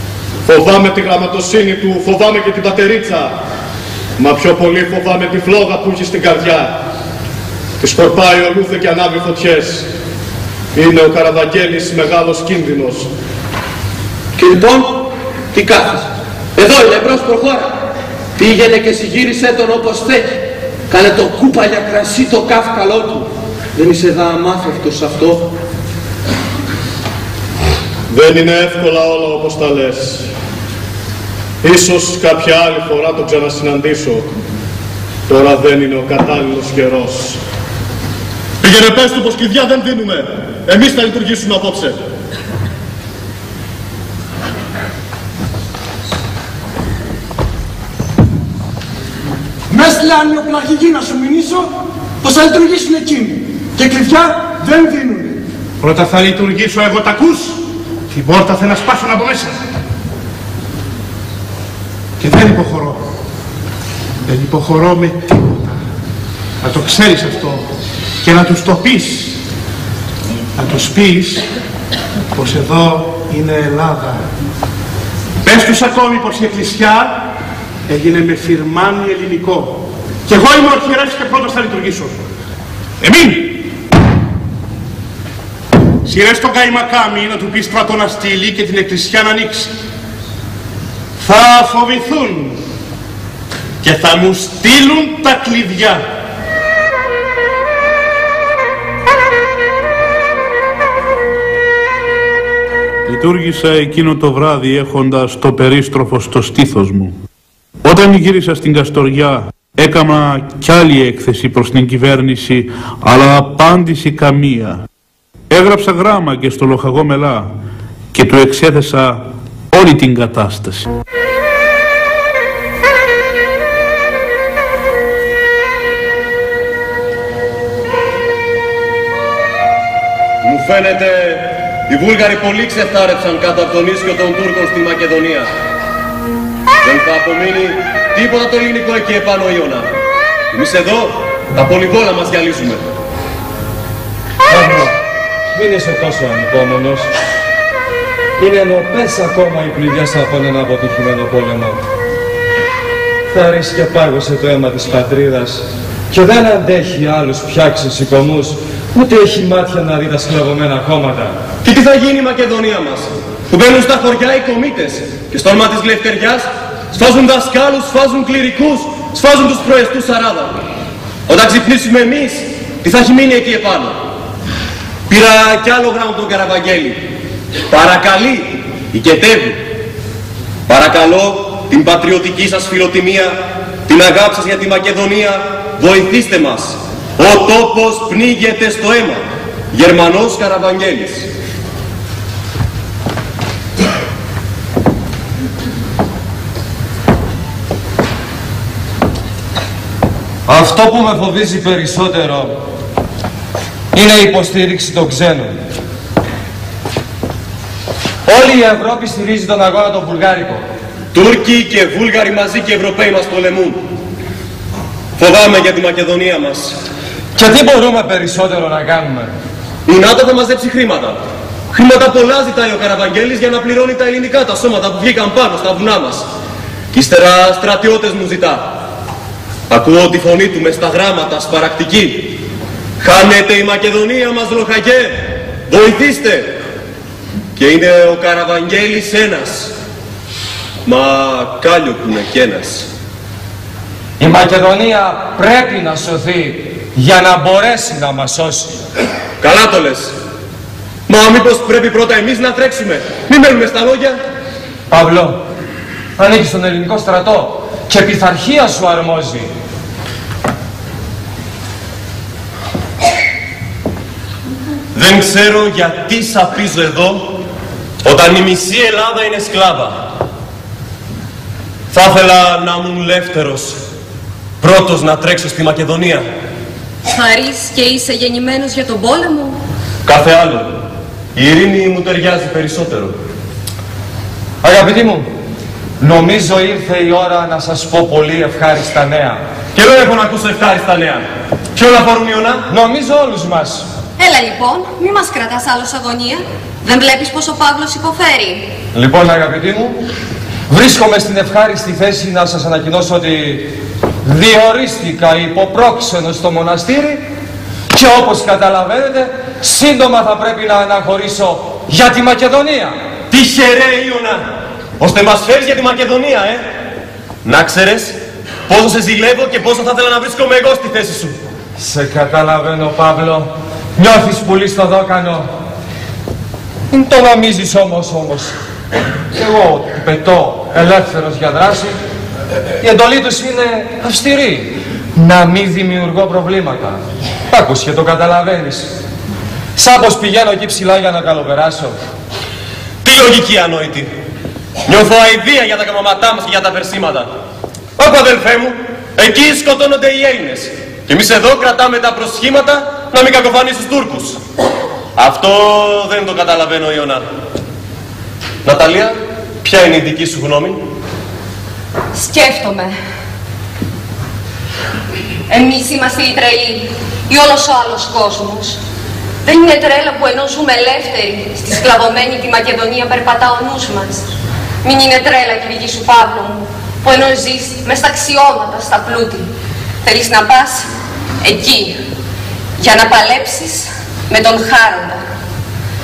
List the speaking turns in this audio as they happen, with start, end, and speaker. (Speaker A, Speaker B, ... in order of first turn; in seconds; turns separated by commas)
Speaker A: 0.5-3.3, Speaker A: 4.2-6.7, Speaker A: 7.8-9.8, Speaker A: 10.8-13.1, Speaker B: 16.6-17.5, Speaker B: 19.5-20.2, Speaker B: 21.9-23.1, Speaker A: 28.1-30.2, Speaker A: 31.6-34.3, Speaker A: 35.3-37.4, Speaker A: 38.6-42.0, Speaker C: 55.8-57.6, Speaker C: 58.1-59.6, Speaker C: 62.2-63.0, Speaker C: 64.2-65.7, Speaker C: 66.6-67.6, Speaker C: 68.2-69.3, Speaker C: 70.6-71.4, Speaker C: 72.3-74.2, Speaker C: 75.4-77.2, Speaker C: 77.9-82.2, Speaker C: 83.0-83.6, Speaker C: 86.0-89.7, Speaker C: 91.2-92.6, Speaker C: 93.8-96.0, Speaker D: 103.0-107.1, Speaker D: 107.8-114.8, Speaker D: 115.5-117.5, Speaker D: 118.1-120.9, Speaker E: 130.4-135.5, Speaker E: 136.8-139.9, Speaker E: 140.5-142.8, Speaker F: 144.5-144.9, Speaker F: 145.5-147.1, Speaker F: 148.4-151.8, Speaker F: 153.3-161.4, Speaker E: 161.6-170.6, Speaker E: 171.3-174.0, Speaker E: 175.1-177.0, Speaker E: 177.7-179.6, Speaker E: 180.7-191.3, Speaker F: 200.5-202.5, Speaker F: 203.9-205.6, Speaker F: 208.2-210.6, Speaker E: 211.1-213.8, Speaker E: 215.2-216.8, Speaker F: 217.3-219.3, Speaker E: 219.8-221.2, Speaker E: 221.7-226.2, Speaker E: 226.9-228.7, Speaker E: 229.7-232.3, Speaker E: 233.0-236.5, Speaker E: 237.6-239.7, Speaker E: 240.8-242.9, Speaker F: 244.2-248.8, Speaker E: 249.4-250.1, Speaker E: 251.1-254.2, Speaker F: 254.9-255.4, Speaker F: 256.2-259.5, Speaker E: 264.9-267.4, Speaker E: 268.0-270.0, Speaker E: 271.9-273.8, Speaker E: 274.6-276.3, Speaker G: 277.1-279.6, Speaker E: 280.0-280.7, Speaker E: 281.3-283.1, Speaker F: 284.6-285.3, Speaker F: 286.0-289.4, Speaker E: 289.7-292.6, Speaker F: 292.7-293.9, Speaker G: 294.2-298.7, Speaker F: 298.9-300.0, Speaker F: 300.7-303.7, Speaker F: 304.2-307.2, Speaker F: 307.9-312.9, Speaker E: 313.3-314.5, Speaker E: 315.0-316.6, Speaker E: 317.4-321.4, Speaker F: 321.8-325.5, Speaker F: 326.9-328.5, Speaker F: 329.3-331.9, Speaker F: 332.8-338.9, Speaker F: 339.8-341.9, Speaker E: 343.0-344.1, Speaker E: 344.9-347.3, Speaker E: 348.0-354.4, Speaker E: 355.1-357.2, Speaker E: 358.6-360.8, Speaker G: 362.1-362.9, Speaker G: 365.5-368.8, Speaker G: 369.4-374.2, Speaker G: 374.8-379.4, Speaker G: 380.0-380.9, Speaker G: 381.4-382.0, Speaker G: 382.8-385.2